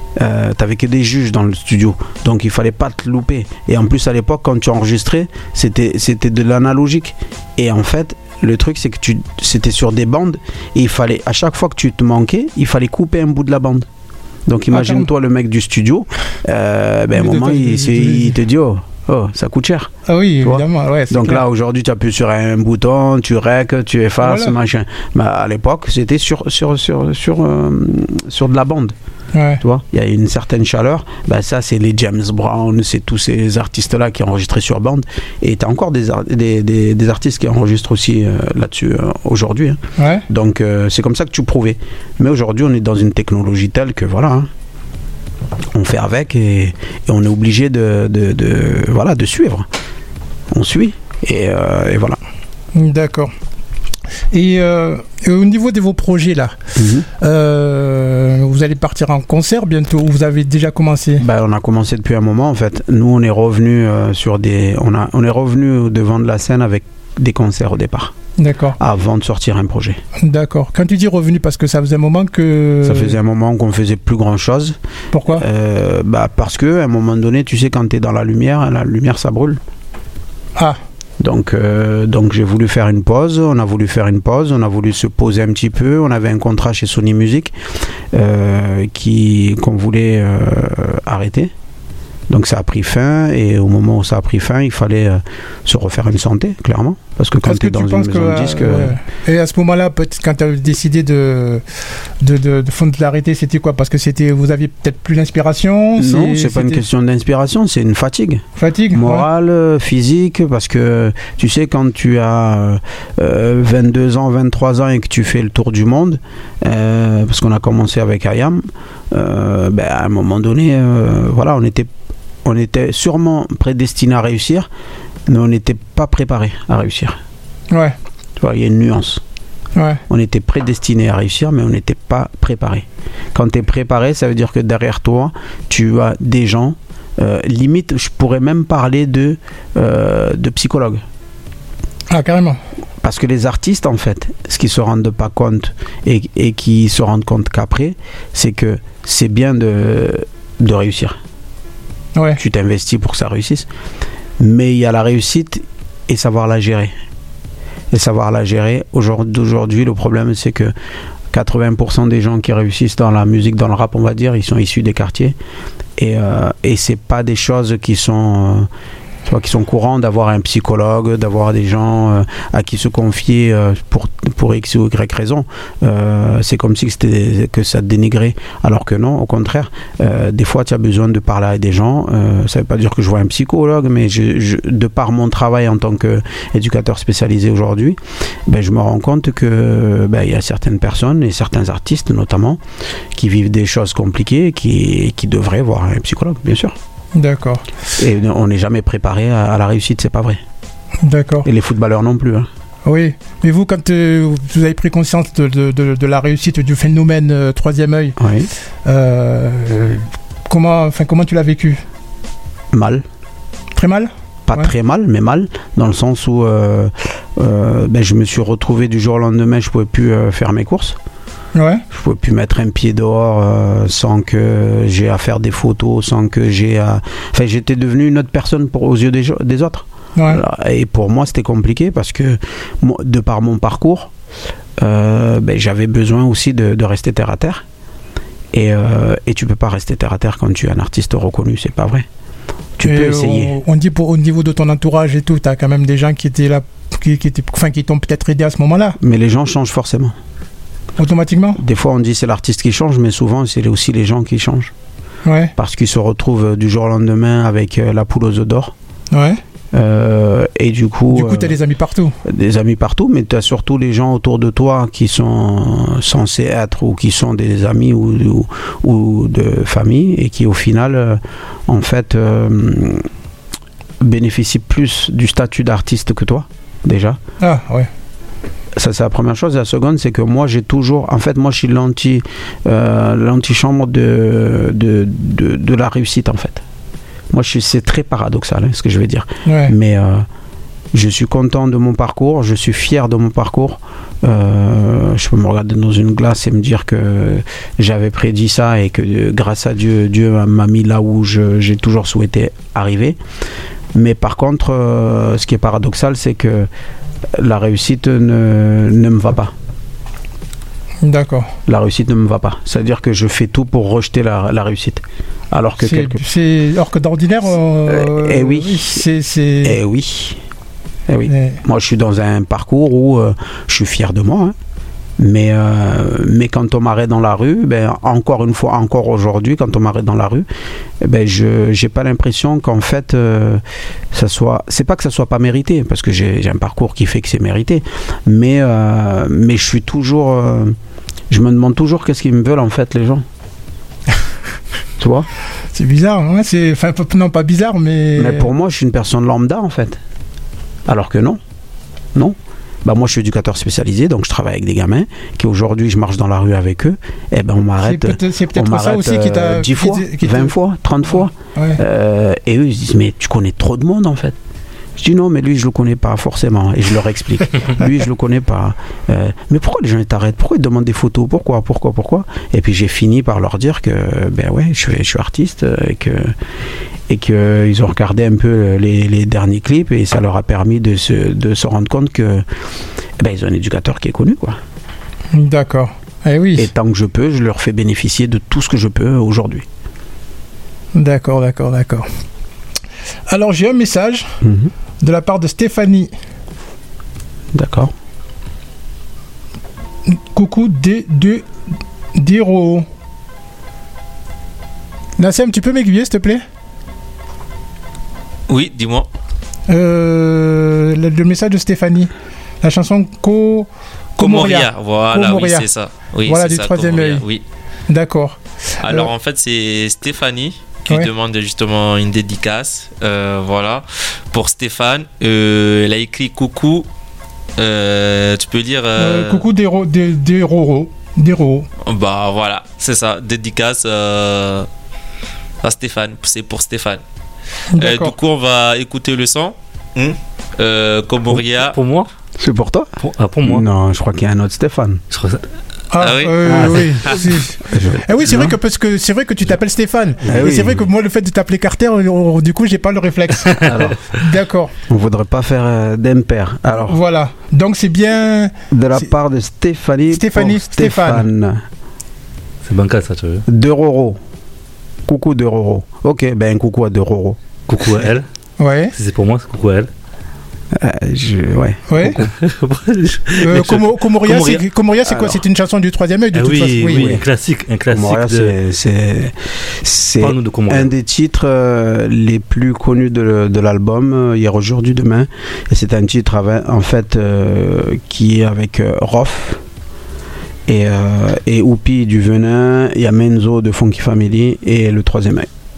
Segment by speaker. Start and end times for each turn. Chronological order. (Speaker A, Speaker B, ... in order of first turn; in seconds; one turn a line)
Speaker A: 0.2-13.9
Speaker A: 14.5-28.9
Speaker B: 14.7-15.1
Speaker B: 17.1-18.4
Speaker B: 20.1-21.4
Speaker B: 24.2-24.5
Speaker B: 29.4-29.6
Speaker A: 29.6-44.5
Speaker B: 40.0-40.2
Speaker A: 45.7-49.7
Speaker A: 50.5-52.2
Speaker B: 52.7-53.3
Speaker B: 54.3-56.5
Speaker A: 56.7-57.1
Speaker B: 57.2-61.2
Speaker A: 61.2-68.1
Speaker B: 68.4-68.8
Speaker A: 68.8-70.0
Speaker B: 70.2-73.2
Speaker A: 72.8-74.8
Speaker B: 75.1-75.4
Speaker A: 75.3-79.6
Speaker A: 81.2-87.5
Speaker A: 88.1-91.5
Speaker A: 92.3-99.0
Speaker B: 97.4-101.6
Speaker B: 102.2-106.8
Speaker A: 106.0-121.9
Speaker B: 108.6-109.2
Speaker A: 122.4-124.7
Speaker A: 125.3-127.2
Speaker B: 127.7-128.0
Speaker A: 128.4-129.2
Speaker B: 129.8-130.0
Speaker A: 130.1-141.0
Speaker B: 142.1-142.6
Speaker A: 143.0-151.2
Speaker A: 152.4-153.7
Speaker A: 154.4-156.9
Speaker A: 157.9-160.7
Speaker A: 161.3-165.4
Speaker A: 166.0-168.7
Speaker A: 169.2-192.6
Speaker A: 193.1-196.8
Speaker B: 197.1-197.7
Speaker A: 198.0-200.4
Speaker B: 201.0-201.5
Speaker A: 201.4-202.5
Speaker B: 202.9-208.2
Speaker A: 208.2-208.5
Speaker B: 208.9-211.8
Speaker A: 212.7-213.0
Speaker B: 213.8-214.7
Speaker A: 214.4-221.0
Speaker B: 221.5-221.8
Speaker A: 221.9-234.1
Speaker A: 234.8-237.6
Speaker A: 238.5-242.1
Speaker A: 242.8-243.5
Speaker B: 242.8-249.0
Speaker A: 249.0-250.1
Speaker B: 251.0-251.6
Speaker A: 251.6-254.7
Speaker B: 255.2-255.5
Speaker A: 255.6-258.7
Speaker B: 259.1-259.4
Speaker A: 259.7-261.6
Speaker B: 261.1-262.1
Speaker A: 262.2-273.1
Speaker A: 274.0-277.2
Speaker B: 277.4-277.9
Speaker A: 278.8-286.6
Speaker A: 287.3-290.3
Speaker B: 289.4-289.7
Speaker A: 290.9-303.2
Speaker A: 303.9-306.7
Speaker A: 307.4-309.5
Speaker B: 311.0-311.5
Speaker A: 311.6-316.2
Speaker B: 315.8-319.8
Speaker A: 317.9-319.0
Speaker A: 319.6-320.4
Speaker A: 321.1-324.5
Speaker B: 321.3-321.6
Speaker A: 325.2-330.4
Speaker A: 331.0-340.7
Speaker A: 341.3-343.2
Speaker A: 345.0-345.3
Speaker B: 345.7-348.5
Speaker A: 348.1-350.0
Speaker A: 350.9-351.4
Speaker A: 352.1-364.4
Speaker B: 357.8-360.5
Speaker B: 361.1-361.8
Speaker A: 365.0-376.3
Speaker A: 377.1-382.4
Speaker A: 383.2-384.6
Speaker B: 385.3-386.7
Speaker A: 386.6-389.6
Speaker B: 390.9-392.1
Speaker B: 393.3-394.4
Speaker A: 394.4-394.7
Speaker B: 395.0-396.1
Speaker A: 397.5-397.9
Speaker B: 400.1-401.5
Speaker B: 402.1-402.9
Speaker B: 405.2-406.4
Speaker C: 408.5-409.1
Speaker B: 409.7-412.1
Speaker B: 412.6-415.7
Speaker C: 414.2-417.4
Speaker B: 416.2-417.2
Speaker B: 417.9-419.1
Speaker C: 418.8-426.9
Speaker C: 427.6-429.5
Speaker B: 428.9-431.7
Speaker C: 431.8-434.7
Speaker C: 435.6-437.0
Speaker B: 437.7-438.1
Speaker C: 437.8-441.8
Speaker D: 441.6-442.1
Speaker A: 442.4-442.9
Speaker D: 443.0-443.6
Speaker A: 443.4-445.0
Speaker D: 445.1-445.4
Speaker B: 445.9-454.7
Speaker C: 445.9-447.1
Speaker A: 446.4-448.5
Speaker A: 450.2-450.8
Speaker D: 453.6-453.9
Speaker A: 454.9-457.0
Speaker B: 456.7-459.0
Speaker A: 458.7-461.6
Speaker B: 460.1-461.2
Speaker D: 462.6-463.4
Speaker A: 463.5-464.2
Speaker A: 465.1-467.4
Speaker D: 467.7-468.3
Speaker B: 468.6-468.9
Speaker D: 468.9-469.9
Speaker A: 470.8-472.2
Speaker B: 471.9-472.2
Speaker D: 472.2-474.6
Speaker B: 473.4-477.1
Speaker A: 475.1-475.4
Speaker D: 476.3-478.5
Speaker A: 476.9-477.2
Speaker A: 477.9-489.6
Speaker D: 480.2-480.9
Speaker A: 490.7-495.5